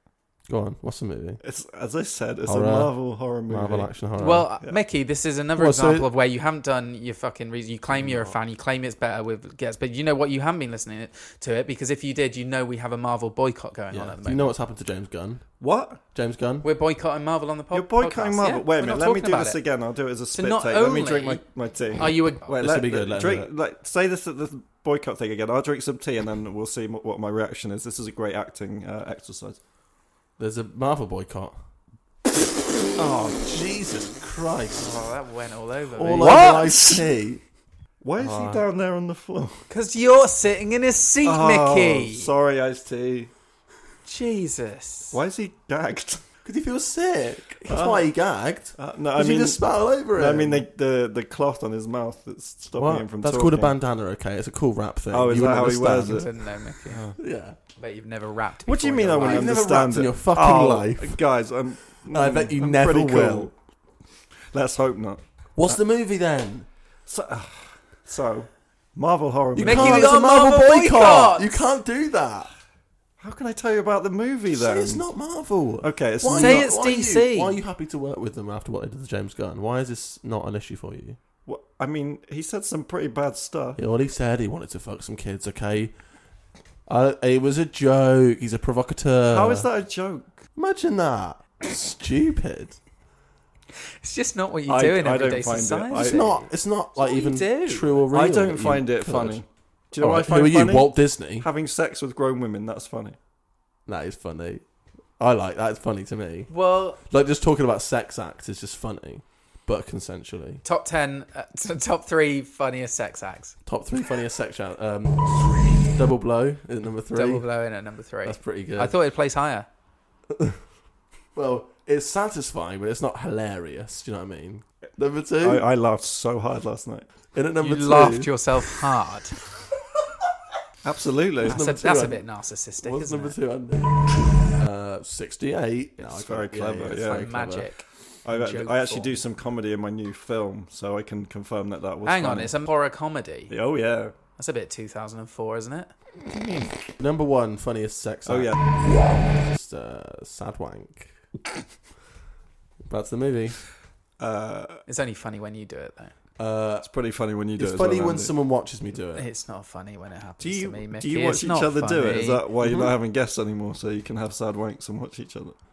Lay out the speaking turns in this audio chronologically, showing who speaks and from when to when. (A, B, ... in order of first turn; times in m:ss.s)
0:00.5-0:01.4 A
0:01.4-0:03.9 B
0:02.4-0:04.5 A
0:04.2-0:14.5 C
0:05.6-0:06.1 A
0:07.9-0:08.4 A
0:13.9-0:15.6 A
0:15.6-0:16.0 B
0:16.1-0:16.6 A
0:16.6-0:19.6 C
0:17.7-0:29.6 B
0:20.3-0:21.4 C
0:22.0-0:22.5 C
0:22.4-0:23.5 A
0:30.4-0:31.6 A
0:33.0-0:33.5 B
0:33.4-0:35.0 A
0:34.8-0:36.7 C
0:36.0-0:37.4 A
0:36.2-0:37.0 B
0:38.0-0:39.6 B
0:38.2-0:38.6 A
0:39.7-0:42.3 C
0:41.2-0:43.3 B
0:44.0-0:45.2 C
0:45.1-0:46.2 B
0:46.4-0:50.6 A
0:47.7-0:48.1 B
0:48.8-0:53.8 B
0:52.8-0:56.3 A
0:55.1-0:56.3 B
0:56.1-0:57.0 C
0:56.8-0:57.2 B
0:57.2-0:57.6 A
0:57.8-0:59.5 C
0:58.6-1:03.5 B
0:59.2-1:01.2 A
1:02.1-1:03.5 A
1:04.5-1:05.8 B
1:05.6-1:06.7 A
1:07.1-1:10.2 B
1:09.5-1:12.5 A
1:09.6-1:11.5 C
1:13.2-1:15.1 B
1:14.5-1:21.2 A
1:15.8-1:16.7 B
1:16.3-1:17.6 C
1:21.4-1:23.8 B
1:23.8-1:25.9 A
1:26.9-1:29.7 A
1:29.3-1:30.4 B
1:30.6-1:32.8 A
1:34.0-1:36.4 C
1:34.7-1:36.4 B
1:35.9-1:39.4 A
1:37.0-1:38.0 C
1:38.1-1:43.2 B
1:40.0-1:41.5 A
1:43.8-1:44.6 A
1:45.2-1:50.6 A
1:46.5-1:47.0 C
1:50.6-1:53.5 C
1:53.6-1:55.2 A
1:55.9-1:57.5 A
1:57.1-1:59.7 C
1:58.2-1:59.0 A
2:01.3-2:05.6 A
2:05.4-2:07.1 B
2:07.3-2:08.5 A
2:07.6-2:09.4 C
2:10.8-2:11.6 B
2:11.4-2:12.2 A
2:11.4-2:13.4 C
2:12.8-2:17.7 A
2:16.0-2:17.4 B
2:17.1-2:19.2 C
2:18.2-2:22.6 B
2:22.0-2:23.5 C
2:23.5-2:24.1 B
2:24.4-2:25.9 C
2:26.3-2:26.7 B
2:27.0-2:28.6 A
2:28.3-2:28.6 B
2:29.1-2:31.1 A
2:32.9-2:33.6 A
2:34.2-2:34.8 B
2:34.9-2:36.1 C
2:36.4-2:36.9 A
2:36.8-2:38.3 B
2:37.6-2:39.3 A
2:39.1-2:42.4 C
2:40.4-2:45.6 B
2:42.6-2:42.9 A